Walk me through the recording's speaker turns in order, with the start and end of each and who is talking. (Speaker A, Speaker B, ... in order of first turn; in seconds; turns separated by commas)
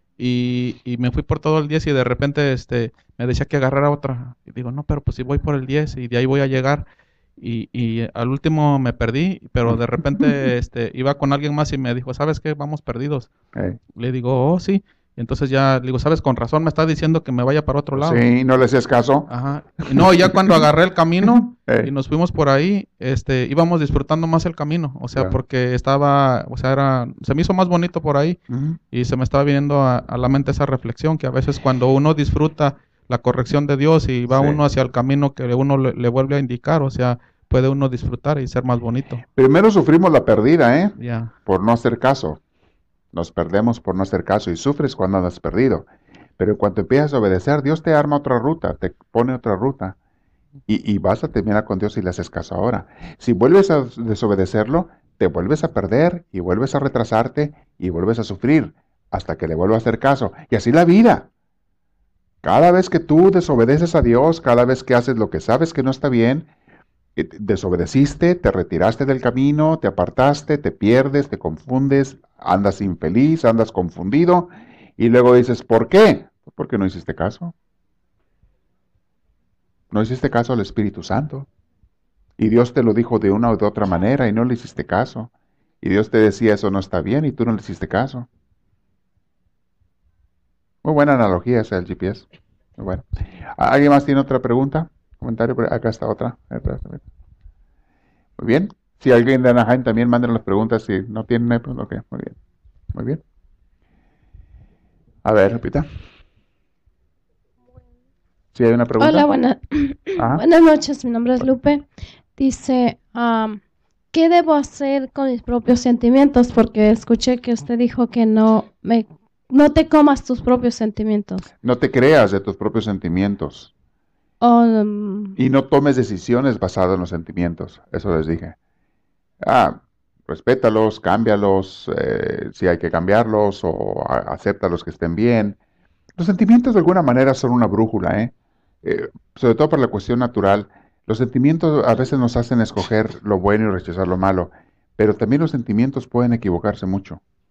Speaker A: 0.2-6.8, Speaker A: 7.4-13.3, Speaker B: 9.7-10.3, Speaker B: 13.5-13.8, Speaker A: 13.9-18.2, Speaker B: 18.0-19.3, Speaker A: 19.3-28.4, Speaker B: 19.9-20.6, Speaker B: 21.2-21.9, Speaker B: 28.5-28.8, Speaker A: 28.9-39.2, Speaker B: 34.3-34.6, Speaker B: 39.3-42.4, Speaker A: 41.0-41.3, Speaker B: 43.1-45.9, Speaker B: 46.4-50.0, Speaker B: 50.7-61.3, Speaker B: 62.4-66.5, Speaker B: 67.2-77.5, Speaker B: 79.9-81.5, Speaker B: 82.4-85.3, Speaker B: 85.8-88.3, Speaker B: 90.8-92.2, Speaker B: 92.8-93.0, Speaker B: 93.5-97.0, Speaker B: 98.4-102.4, Speaker B: 102.9-103.2, Speaker B: 105.2-105.9, Speaker B: 108.5-109.3, Speaker C: 109.0-111.8, Speaker B: 110.2-110.4, Speaker C: 112.4-113.6, Speaker C: 114.1-121.5, Speaker B: 121.6-123.7, Speaker C: 124.4-125.3, Speaker B: 125.3-128.6, Speaker B: 129.4-135.6, Speaker B: 136.2-147.2